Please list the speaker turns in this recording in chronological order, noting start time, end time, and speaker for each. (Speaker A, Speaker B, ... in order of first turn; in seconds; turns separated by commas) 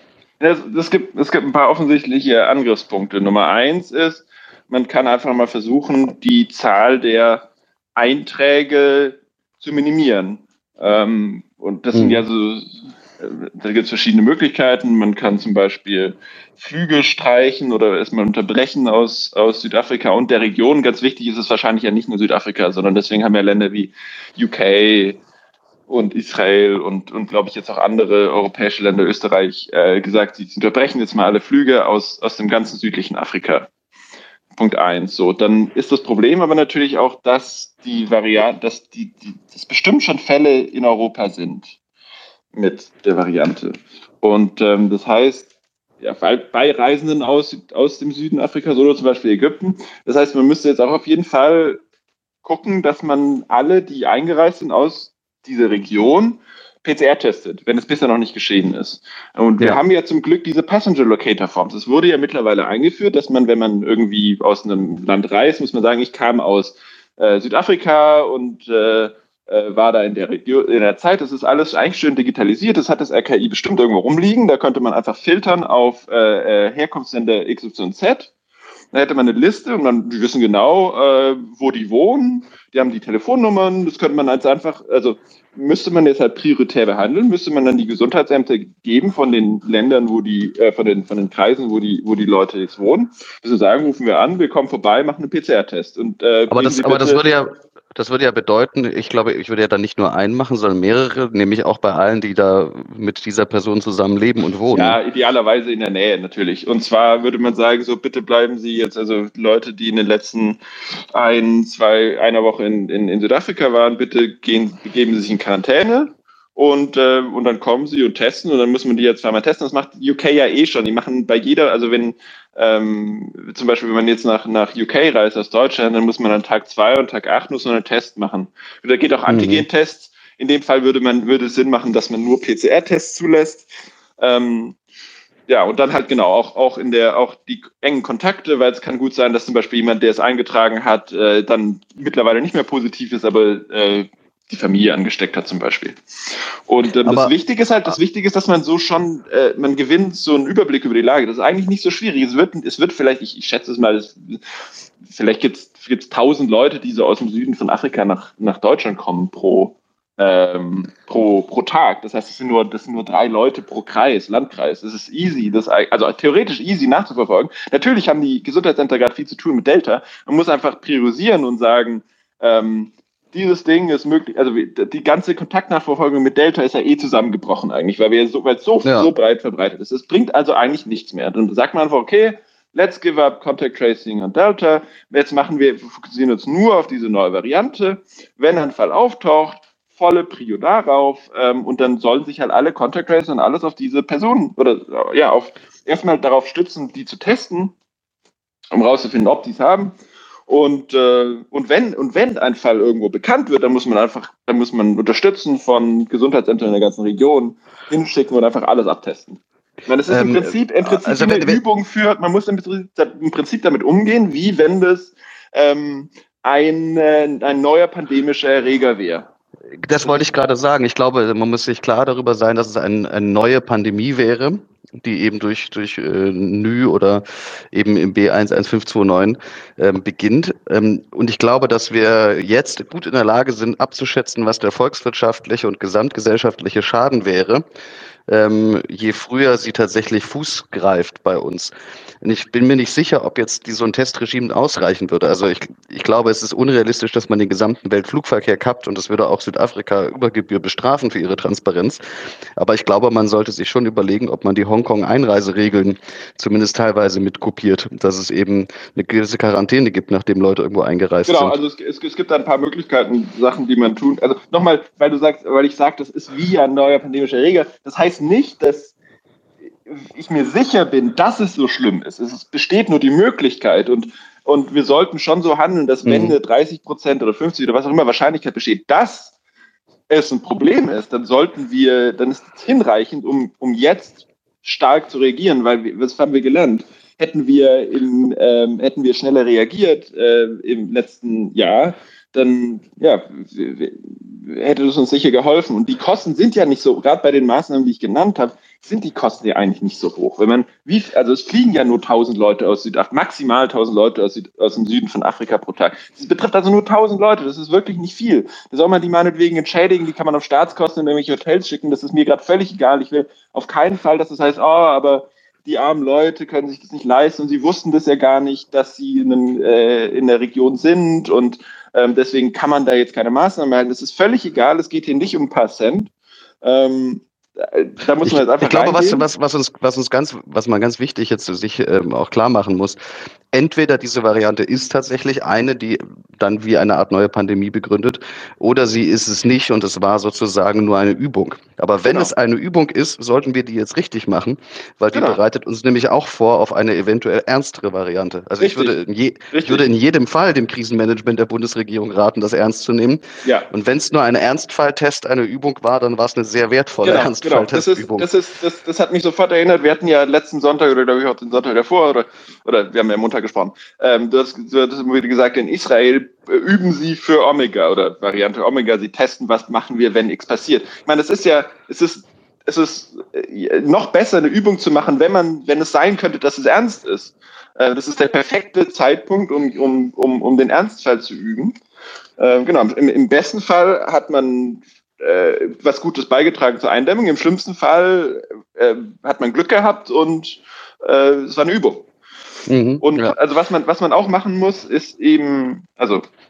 Speaker A: 0.4-25.2, Speaker B: 11.9-12.2, Speaker A: 25.9-33.7, Speaker A: 34.5-41.8, Speaker A: 42.5-45.5, Speaker A: 46.0-51.8, Speaker A: 52.4-78.3, Speaker A: 78.9-97.2, Speaker B: 96.5-105.0, Speaker A: 104.7-110.6, Speaker A: 111.1-134.8, Speaker B: 129.3-129.6, Speaker A: 135.5-154.4, Speaker B: 147.0-147.3, Speaker A: 155.0-197.7, Speaker B: 178.8-179.1, Speaker A: 198.7-199.9, Speaker A: 200.5-219.3, Speaker B: 210.1-211.6, Speaker B: 219.8-237.6, Speaker B: 238.3-252.0, Speaker B: 252.6-261.6, Speaker A: 261.3-268.9, Speaker A: 269.9-279.3, Speaker B: 276.1-276.4, Speaker A: 280.1-326.1, Speaker A: 326.6-329.2, Speaker B: 328.2-333.0, Speaker B: 333.5-358.3, Speaker A: 342.0-342.3, Speaker A: 345.1-345.4, Speaker A: 348.6-348.9, Speaker A: 349.5-349.8, Speaker A: 357.0-381.7, Speaker A: 382.4-392.1, Speaker B: 392.7-393.3, Speaker A: 393.0-396.2